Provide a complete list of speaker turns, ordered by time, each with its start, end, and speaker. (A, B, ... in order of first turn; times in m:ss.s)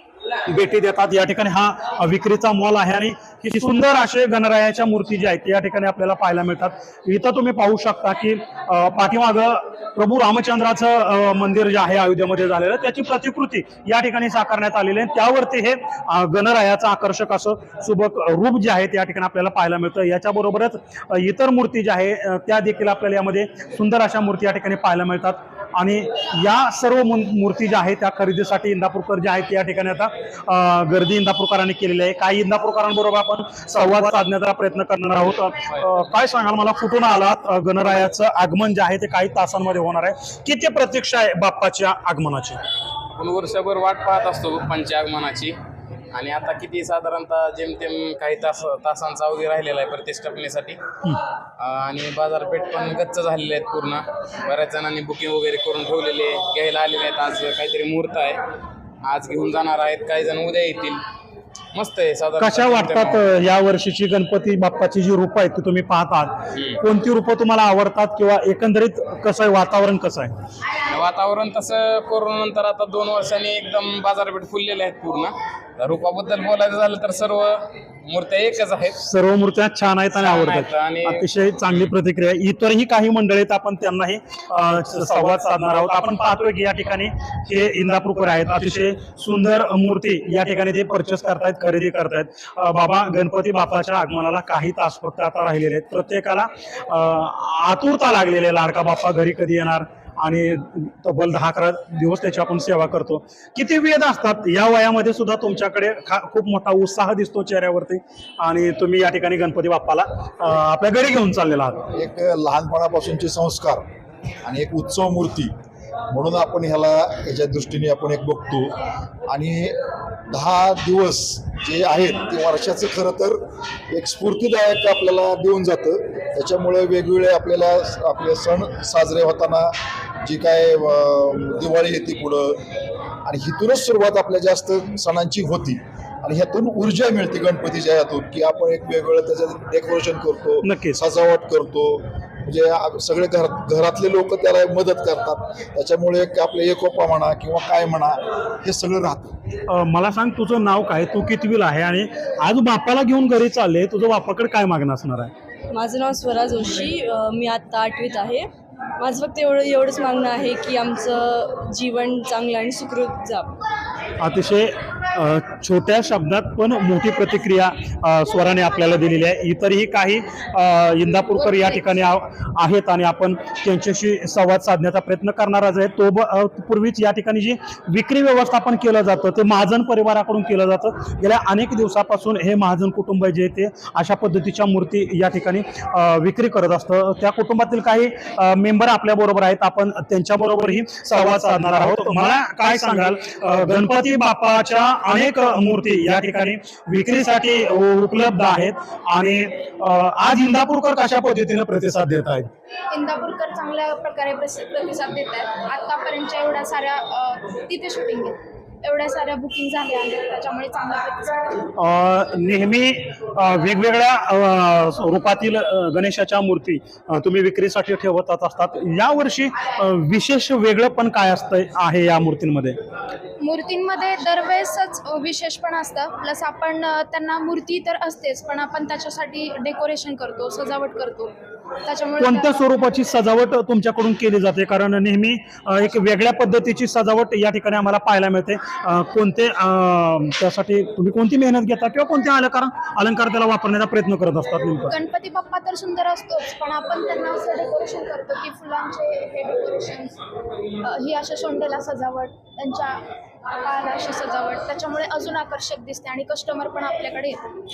0:00.5-0:42.6 A
0:43.1-0:45.6 B
0:46.1-0:50.8 B
0:51.6-0:58.4 B
0:59.0-1:01.0 B
1:01.7-1:03.2 B
1:02.4-1:10.3 A
1:10.9-1:18.9 B
1:19.0-1:51.9 A
1:20.2-1:21.9 B
1:51.9-1:53.8 C
1:54.4-1:55.5 C
1:56.1-2:12.6 C
2:13.2-2:29.4 C
2:20.6-2:21.0 A
2:29.7-2:35.3 A
2:35.7-2:43.6 D
2:44.2-3:22.5 A
3:22.9-3:31.6 E
3:31.7-3:42.8 A
3:43.4-3:51.3 E
3:51.8-3:52.6 E
3:52.2-4:04.9 A
4:04.9-4:10.2 E
4:10.8-4:13.0 E
4:13.6-4:17.4 E